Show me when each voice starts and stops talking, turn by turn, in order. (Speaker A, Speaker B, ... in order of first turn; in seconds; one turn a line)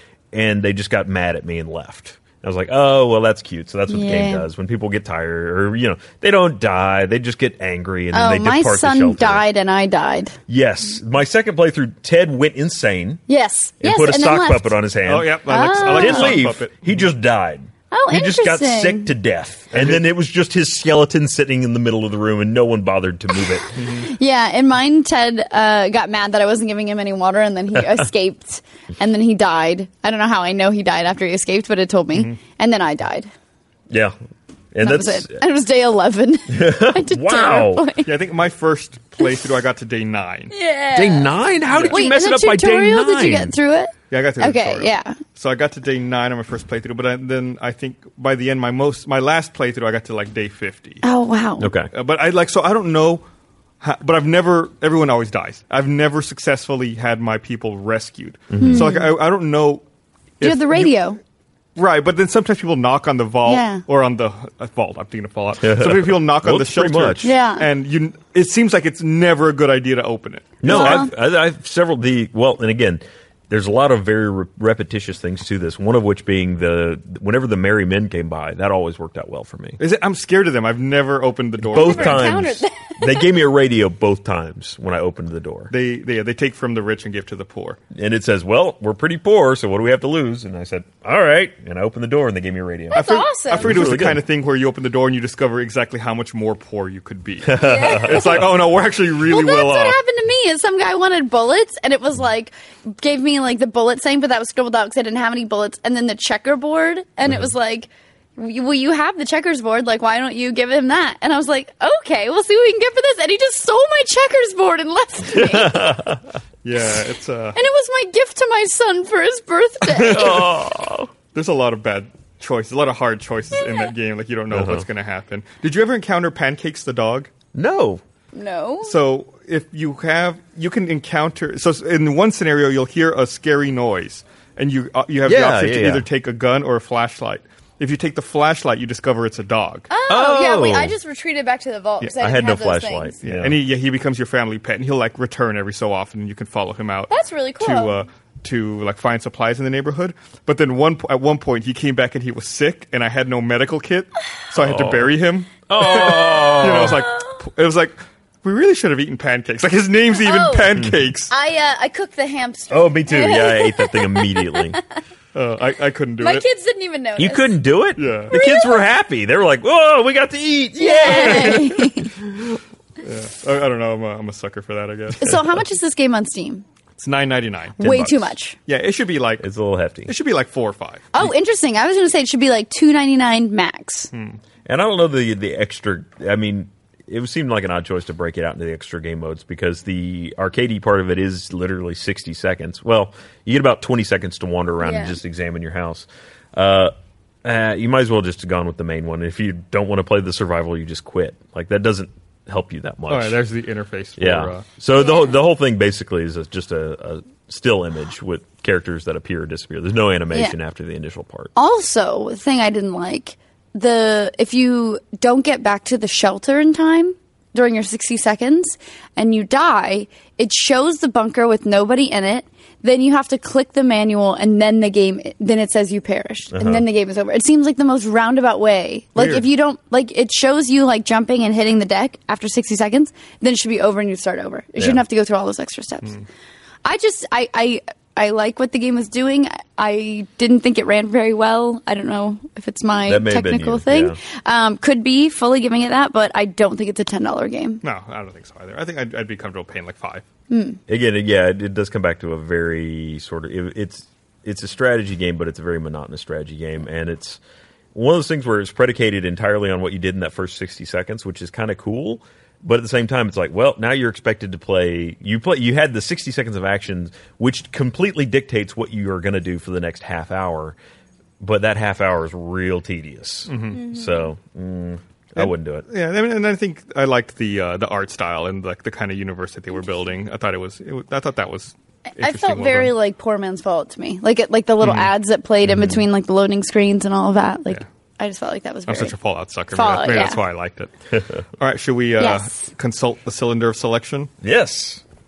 Speaker A: 0.3-9.4
Speaker B: 3.9-4.5
Speaker B: 8.1-10.4
Speaker A: 10.5-13.2
Speaker B: 13.3-14.8
Speaker A: 13.8-23.8
Speaker C: 15.1-17.0
Speaker B: 15.5-16.4
Speaker B: 17.9-19.1
Speaker C: 19.7-20.0
Speaker C: 23.8-24.1
Speaker B: 23.9-33.3
Speaker A: 34.7-35.4
Speaker B: 34.8-38.1
Speaker A: 36.5-37.9
Speaker C: 38.0-40.5
Speaker B: 40.5-41.3
Speaker A: 41.0-43.5
Speaker C: 41.7-42.0
Speaker B: 41.9-45.2
Speaker C: 44.1-51.0
Speaker B: 51.0-51.7
Speaker A: 51.6-51.9
Speaker C: 51.9-53.2
Speaker C: 53.8-59.8
Speaker A: 58.5-59.0
Speaker B: 58.6-59.1
Speaker C: 60.4-61.0
Speaker B: 60.4-61.2
Speaker C: 61.8-71.1
Speaker B: 63.5-63.8
Speaker A: 65.6-67.3
Speaker B: 67.2-67.7
Speaker A: 70.6-79.8
Speaker B: 70.7-71.1
Speaker C: 79.8-82.4
Speaker A: 81.6-85.7
Speaker B: 81.8-83.3
Speaker C: 85.7-87.8
Speaker A: 87.9-93.1
Speaker B: 92.9-93.8
Speaker C: 92.9-100.0
Speaker A: 93.6-94.2
Speaker A: 97.5-98.5
Speaker B: 97.5-98.6
Speaker B: 99.3-116.0
Speaker A: 115.3-116.3
Speaker C: 116.6-117.6
Speaker B: 117.5-120.5
Speaker C: 119.9-120.4
Speaker A: 120.1-121.1
Speaker C: 121.3-127.3
Speaker B: 123.6-123.9
Speaker A: 124.5-124.9
Speaker A: 127.5-128.0
Speaker B: 128.3-129.0
Speaker C: 128.8-139.9
Speaker A: 135.3-136.1
Speaker B: 139.9-143.2
Speaker A: 140.1-140.9
Speaker A: 142.2-143.6
Speaker C: 143.2-161.3
Speaker B: 147.1-147.9
Speaker A: 154.6-155.2
Speaker A: 155.7-157.1
Speaker B: 156.8-157.4
Speaker B: 160.1-160.7
Speaker B: 161.3-165.0
Speaker A: 162.7-164.8
Speaker C: 165.3-166.4
Speaker B: 166.2-167.5
Speaker A: 167.2-172.6
Speaker C: 168.0-168.3
Speaker B: 168.3-168.8
Speaker B: 170.8-172.1
Speaker C: 173.0-175.4
Speaker B: 175.2-176.7
Speaker C: 177.0-177.8
Speaker A: 177.8-178.3
Speaker B: 177.8-178.6
Speaker C: 178.7-179.4
Speaker A: 179.4-180.1
Speaker C: 180.1-181.3
Speaker B: 181.1-184.1
Speaker C: 184.1-184.4
Speaker A: 184.7-196.9
Speaker B: 194.8-195.2
Speaker A: 197.4-203.4
Speaker C: 203.1-204.7
Speaker A: 204.2-211.5
Speaker B: 211.6-236.2
Speaker A: 226.5-226.8
Speaker C: 229.2-229.4
Speaker B: 236.8-247.8
Speaker A: 243.1-244.2
Speaker C: 247.8-250.2
Speaker B: 250.5-250.8
Speaker A: 250.9-257.4
Speaker A: 257.9-270.8
Speaker A: 271.4-275.9
Speaker C: 273.5-273.8
Speaker B: 273.8-274.3
Speaker C: 275.4-282.9
Speaker B: 282.2-289.1
Speaker C: 284.8-285.1
Speaker C: 288.9-290.9
Speaker B: 289.7-290.4
Speaker C: 291.6-294.3
Speaker B: 292.2-292.7
Speaker A: 294.4-295.0